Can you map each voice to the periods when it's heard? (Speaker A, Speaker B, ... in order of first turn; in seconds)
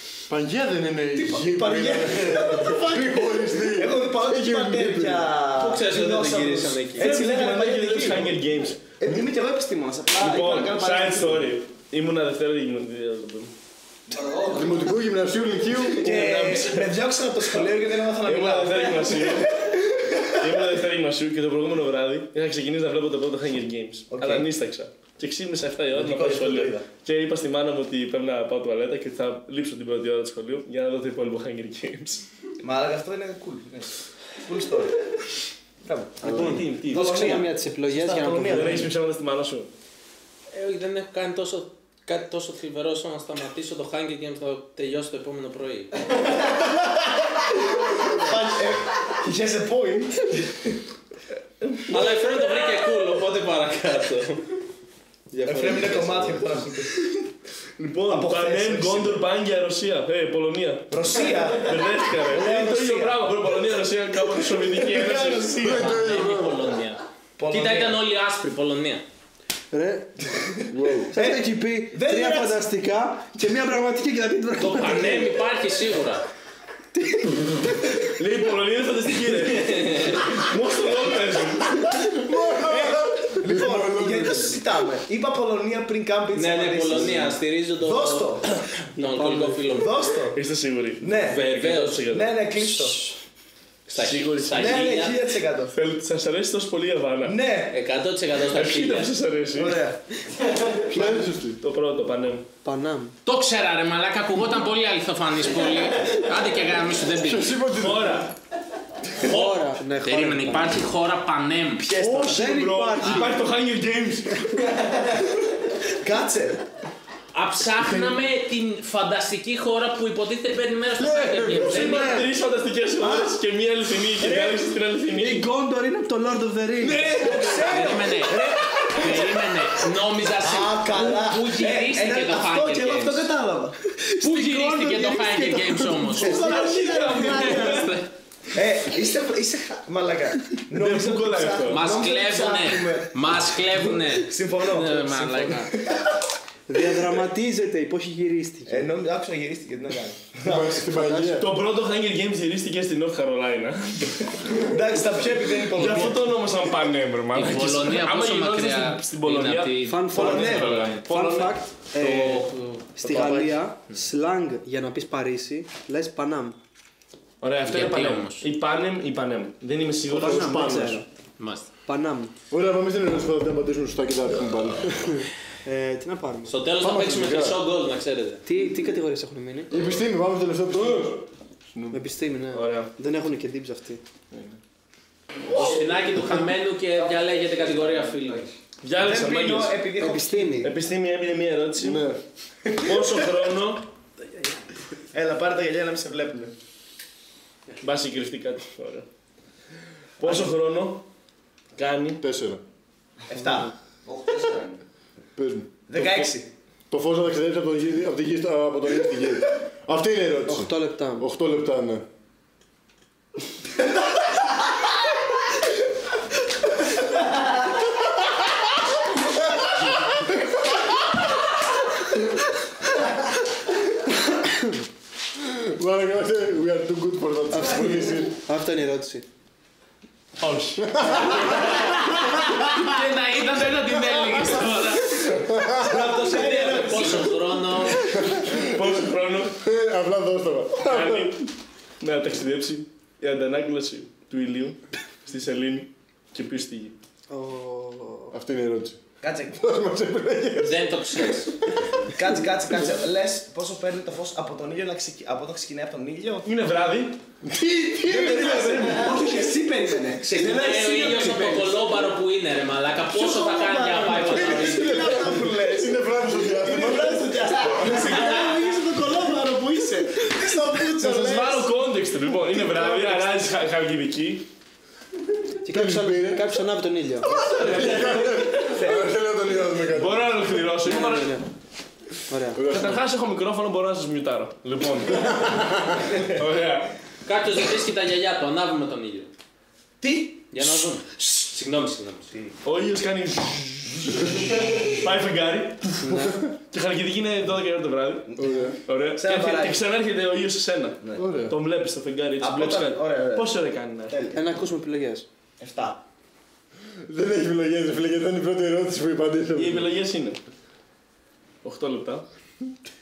Speaker A: 0.3-5.4, 14.5-16.2, 36.2-36.6, 65.6-66.7, 70.7-71.1, 81.9-84.6, 100.9-101.6, 107.2-108.3, 121.0-122.2, 150.4-151.5, 170.1-171.0, 172.5-175.2, 176.8-177.6, 179.7-182.0, 184.3-184.6, 191.8-192.2, 202.2-202.6, 205.4-206.3, 206.9-212.1, 225.3-228.3, 230.8-231.8, 235.2-236.1, 238.2-241.4, 248.3-251.5, 257.4-259.2, 264.5-268.1, 275.7-276.6, 277.3-280.5, 282.5-283.0, 285.1-286.1, 298.4-298.8, 301.1-301.6, 307.1-309.9
Speaker B: 1.1-8.4, 9.0-11.5, 15.9-20.7, 24.1-24.5, 25.9-26.9, 32.6-35.0, 35.8-38.9, 46.4-50.8, 55.5-57.1, 58.1-59.2, 60.9-63.5, 64.4-66.0, 67.4-68.0, 71.1-72.7, 82.6-88.6, 89.7-90.4, 91.0-91.5, 92.0-93.1, 94.5-95.8, 97.2-97.8, 99.5-100.0, 111.8-112.6, 115.9-116.6, 123.0-123.3, 126.9-129.5, 130.4-133.8, 136.0-137.9, 138.5-146.2, 148.7-150.9, 154.5-156.4, 160.1-160.9, 189.0-190.7, 192.7-193.4, 195.1-196.5, 200.2-200.5, 203.3-203.7, 205.9-206.5, 235.8-237.6, 249.2-249.6, 252.1-256.5, 258.0-262.0, 263.1-271.7, 272.5-273.5, 277.2-279.1, 290.0-290.6, 298.3-299.8, 302.4-303.6, 304.1-304.5, 305.6-306.0
Speaker C: 5.5-7.2, 40.5-46.1, 51.9-54.5, 55.3-56.5, 65.7-69.0, 74.6-76.2, 79.4-80.4, 86.3-88.4, 89.0-90.1, 91.2-92.1, 93.9-95.2, 97.7-99.1, 103.3-107.5, 109.2-111.9, 113.0-113.3, 117.3-122.3, 127.4-133.3, 134.2-138.1, 141.7-145.7, 157.3-161.0, 162.1-163.2, 167.7-168.5, 171.4-171.7, 176.5-178.4, 185.5-188.4, 231.2-238.2, 250.6-251.6, 260.2-265.3, 268.1-268.6, 287.3-289.3, 290.5-292.3
Speaker D: 7.0-8.8, 10.2-13.5, 15.8-17.0, 18.2-19.8, 20.3-32.2, 36.2-37.5, 38.4-39.7, 57.8-65.8, 77.7-81.8, 90.3-92.3, 93.9-94.8, 95.7-97.4, 98.5-99.8, 101.6-102.5, 107.7-108.3, 112.1-114.7, 121.5-125.5, 126.8-127.8, 136.3-137.9, 140.7-141.9, 151.4-154.7, 155.7-162.5, 163.2-163.4, 167.4-170.8, 182.5-182.9, 188.8-189.8, 190.6-192.1, 192.8-193.9, 197.8-199.1, 200.2-201.1, 201.8-202.2, 230.4-230.8, 238.5-239.6, 240.8-247.0, 256.4-257.2, 267.8-268.2, 270.9-274.5, 279.9-281.4, 282.7-285.7, 286.2-286.9, 292.6-298.3, 298.9-304.2, 309.6-310.4, 311.6-312.3
Speaker E: 14.1-15.0, 186.9-188.5, 204.1-204.8
Speaker F: 36.3-38.9, 69.7-70.1, 71.1-75.4, 77.0-77.4, 89.0-89.9, 102.6-103.2, 109.2-110.8, 112.0-113.4, 121.9-122.2, 124.2-124.6, 125.2-127.6, 134.1-136.2, 146.7-148.9, 151.0-151.4, 159.8-166.6, 170.1-171.1, 171.9-172.3, 175.1-176.6, 178.5-179.8, 181.9-184.0, 190.0-190.7, 210.5-211.3, 227.5-229.2, 247.3-248.3, 275.6-277.4, 280.8-281.4, 282.3-282.6, 296.0-296.4, 304.3-305.3